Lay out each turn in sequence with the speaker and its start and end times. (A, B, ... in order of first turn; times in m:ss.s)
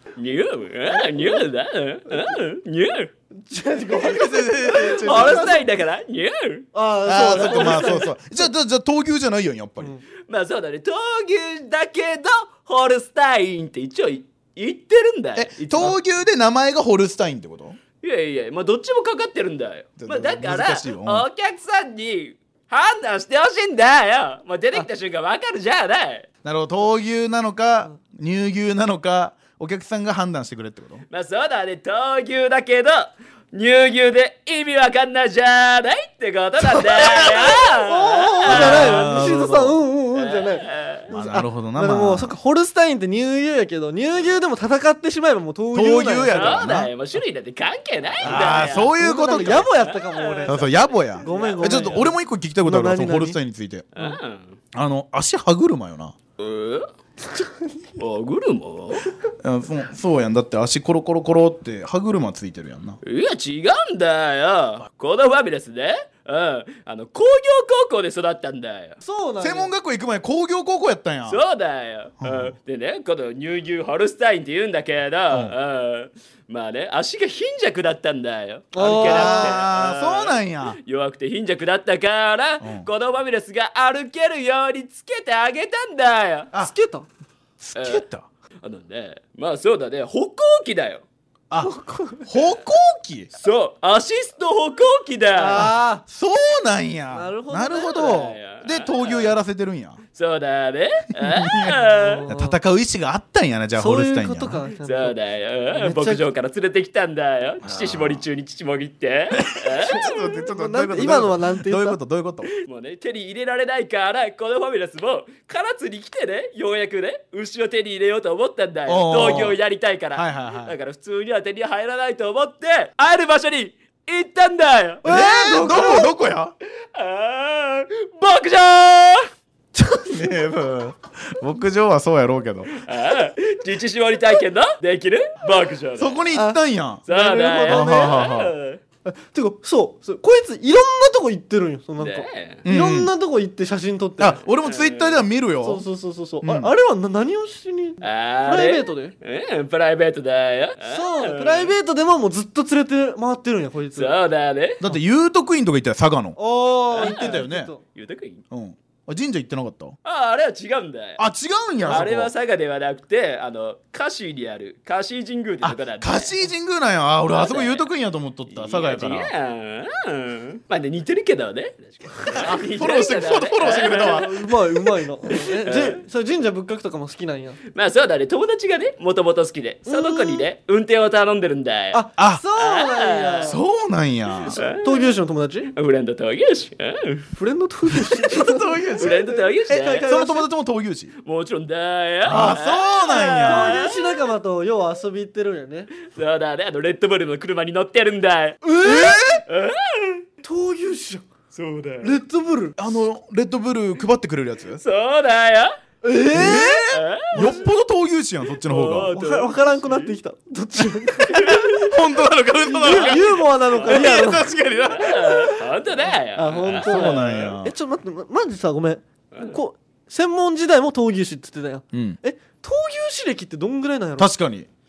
0:00.2-0:03.1 A
0:00.9-0:01.4 B
0:03.3-0:05.6 B
0:03.9-0:05.6 C
0:04.7-0:06.7 A
0:06.7-0:08.1 B
0:07.1-0:09.9 C
0:07.2-0:08.1 A
0:10.3-0:16.0 A
0:15.4-0:17.8 C
0:18.0-0:26.3 A
0:20.0-0:21.2 C
0:26.4-0:31.0 C
0:31.1-0:39.3 A
0:36.6-0:37.6 C
0:37.7-0:46.6 B
0:38.5-0:39.8 C
0:40.2-0:41.1 A
0:41.1-0:42.3 C
0:45.7-0:46.9 C
0:46.3-0:52.1 A
0:48.2-0:50.7 B
0:48.2-0:49.7 C
0:50.5-0:53.9 C
0:51.2-0:53.4 B
0:54.0-0:54.6 A
0:54.7-0:56.2 C
0:56.4-0:56.9 A
0:58.0-0:59.1 A
0:59.4-1:03.0 C
1:03.0-1:09.0 A
1:09.0-1:09.7 B
1:09.4-1:11.4 C
1:11.3-1:26.5 A
1:12.2-1:12.6 C
1:15.3-1:15.6 C
1:18.7-1:19.6 B
1:19.0-1:20.8 C
1:22.6-1:22.9 C
1:26.6-1:27.1 B
1:27.6-1:28.3 C
1:27.8-1:28.0 A
1:28.6-1:31.0 A
1:31.5-1:33.3 C
1:31.6-1:32.3 B
1:33.4-1:35.7 A
1:35.4-1:36.0 B
1:35.6-1:40.0 C
1:37.1-1:38.0 B
1:37.9-1:39.3 A
1:40.1-1:42.3 A
1:41.2-1:44.6 C
1:41.9-1:42.6 B
1:43.8-1:45.2 B
1:44.8-1:50.2 A
1:45.7-1:46.2 B
1:47.6-1:48.2 C
1:49.3-1:52.5 C
1:49.9-1:52.0 B
1:52.5-2:05.0 A
1:58.9-1:59.6 C
2:00.1-2:00.8 C
2:05.0-2:06.1 B
2:05.0-2:06.5 C
2:06.9-2:09.3 A
2:09.8-2:10.4 B
2:10.1-2:12.8 C
2:12.7-2:16.2 A
2:16.0-2:17.0 C
2:16.3-2:18.3 B
2:17.1-2:18.8 A
2:17.7-2:18.5 C
2:19.0-2:24.4 B
2:22.0-2:22.6 A
2:22.6-2:23.1 C
2:24.2-2:25.9 C
2:24.6-2:25.2 A
2:25.6-2:29.1 B
2:26.4-2:26.7 C
2:28.0-2:31.7 A
2:30.8-2:34.2 B
2:34.0-2:34.8 A
2:34.8-2:36.4 C
2:36.4-2:37.8 B
2:37.0-2:37.7 C
2:37.0-2:38.4 A
2:38.5-2:40.0 C
2:40.0-2:41.2 A
2:41.2-2:42.3 C
2:41.8-2:46.4 A
2:45.6-2:49.3 C
2:47.3-2:47.9 A
2:48.5-2:54.3 A
2:52.4-2:54.6 C
2:53.8-2:57.6 B
2:55.3-2:56.0 A
2:57.7-3:02.0 A
2:59.9-3:00.5 B
3:01.9-3:03.6 B
3:02.2-3:02.4 C
3:02.6-3:03.6 A
3:03.4-3:04.6 C
3:04.5-3:05.2 A
3:04.5-3:05.7 B
3:05.7-3:07.3 A
3:07.4-3:10.5 B
3:08.0-3:11.1 C
3:09.0-3:10.1 A
3:11.2-3:14.0 A
3:12.2-3:13.9 C
3:12.3-3:12.6 B
3:13.3-3:15.9 B
3:16.1-3:18.7 A
3:18.6-3:19.3 B
3:18.8-3:19.4 C
3:19.5-3:20.2 A
3:20.4-3:21.3 B
3:21.5-3:22.2 A
3:22.0-3:22.8 B
3:22.8-3:24.8 C
3:24.8-3:25.8 A
3:26.0-3:27.7 B
3:26.3-3:29.1 C
3:26.9-3:27.6 A
3:28.7-3:30.1 A
3:28.7-3:31.6 B
3:31.3-3:31.9 A
3:31.5-3:35.6 C
3:32.7-3:34.5 B
3:32.8-3:37.5 A
3:36.0-3:44.3 B
3:36.8-3:37.7 C
3:39.3-3:39.6 A
3:41.9-3:42.2 C
3:44.2-3:44.7 C